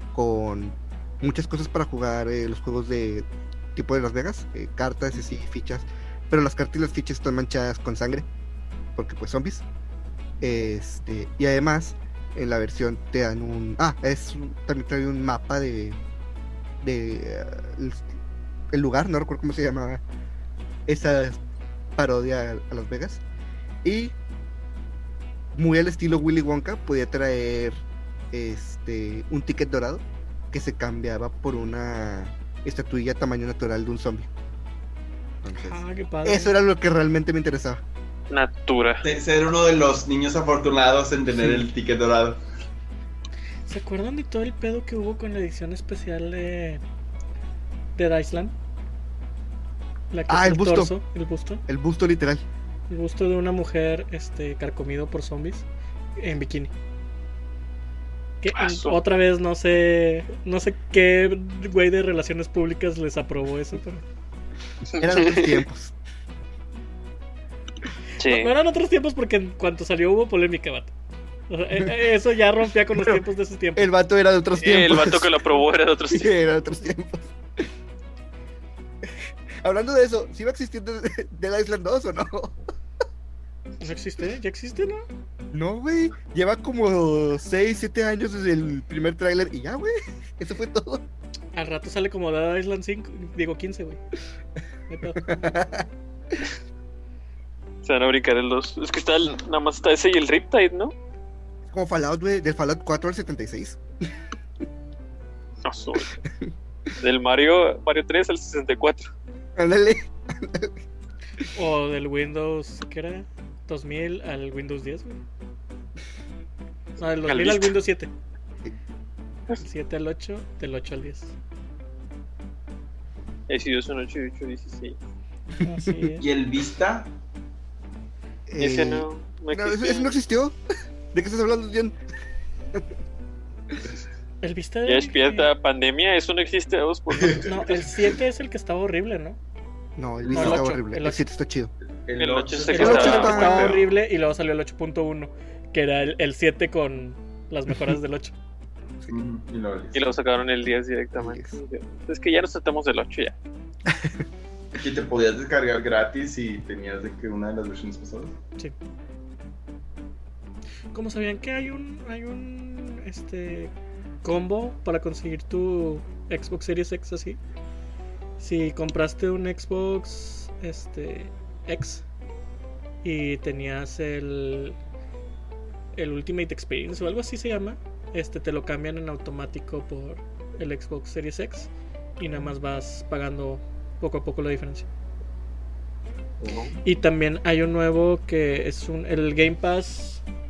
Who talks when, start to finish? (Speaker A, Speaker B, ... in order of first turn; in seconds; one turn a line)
Speaker A: 0.1-8.3
Speaker A: 9.0-9.7
Speaker A: 10.4-16.0
Speaker A: 16.8-18.1
Speaker A: 18.7-20.0
Speaker A: 20.9-21.4
Speaker A: 22.0-23.2
Speaker A: 23.8-24.1
Speaker A: 25.5-34.3
Speaker A: 35.4-37.8
Speaker B: 35.5-36.5
Speaker C: 38.3-39.0
Speaker D: 39.0-42.4
Speaker A: 41.3-41.6
Speaker B: 43.7-46.8
Speaker B: 48.0-48.5
Speaker B: 50.1-51.6
Speaker A: 50.3-50.9
Speaker A: 51.7-52.4
Speaker B: 52.9-55.7
Speaker B: 56.2-56.7
Speaker B: 58.4-64.0
Speaker C: 58.5-59.0
Speaker A: 64.9-66.0
Speaker C: 65.0-65.6
Speaker C: 68.2-68.5
Speaker B: 68.2-70.9
Speaker B: 71.5-73.9
Speaker A: 73.8-75.4
Speaker C: 74.6-76.3
Speaker A: 76.1-77.3
Speaker A: 79.6-82.5
Speaker B: 83.8-85.0
Speaker A: 85.5-91.0
Speaker B: 91.5-94.0
Speaker B: 94.9-95.3
Speaker A: 95.2-95.9
Speaker C: 97.8-100.9
Speaker A: 101.7-103.8
Speaker C: 105.6-106.1
Speaker C: 107.0-109.1
Speaker A: 109.6-110.8
Speaker B: 111.5-115.2
Speaker B: 117.0-118.1
Speaker C: 117.2-117.8
Speaker B: 119.6-121.3
Speaker C: 123.5-125.0
Speaker A: 125.6-126.1
Speaker B: 125.6-126.3
Speaker D: 126.2-127.1
Speaker A: 128.5-130.6
Speaker C: 128.6-130.1
Speaker A: 131.1-132.0
Speaker B: 134.4-135.5
Speaker C: 134.8-137.6
Speaker D: 137.1-137.9
Speaker B: 137.4-139.4
Speaker A: 140.0-141.7
Speaker D: 140.2-140.7
Speaker B: 140.3-141.2
Speaker D: 141.9-143.9
Speaker C: 142.2-143.7
Speaker B: 142.7-148.3
Speaker A: 142.8-143.8
Speaker D: 149.1-150.1
Speaker C: 149.9-153.4
Speaker A: 151.2-151.5
Speaker A: 153.9-154.2
Speaker D: 154.8-158.3
Speaker B: 160.9-163.7
Speaker B: 164.2-167.4
Speaker B: 168.4-172.1
Speaker B: 173.0-174.8
Speaker B: 175.9-184.9
Speaker A: 186.4-186.7
Speaker B: 186.8-190.2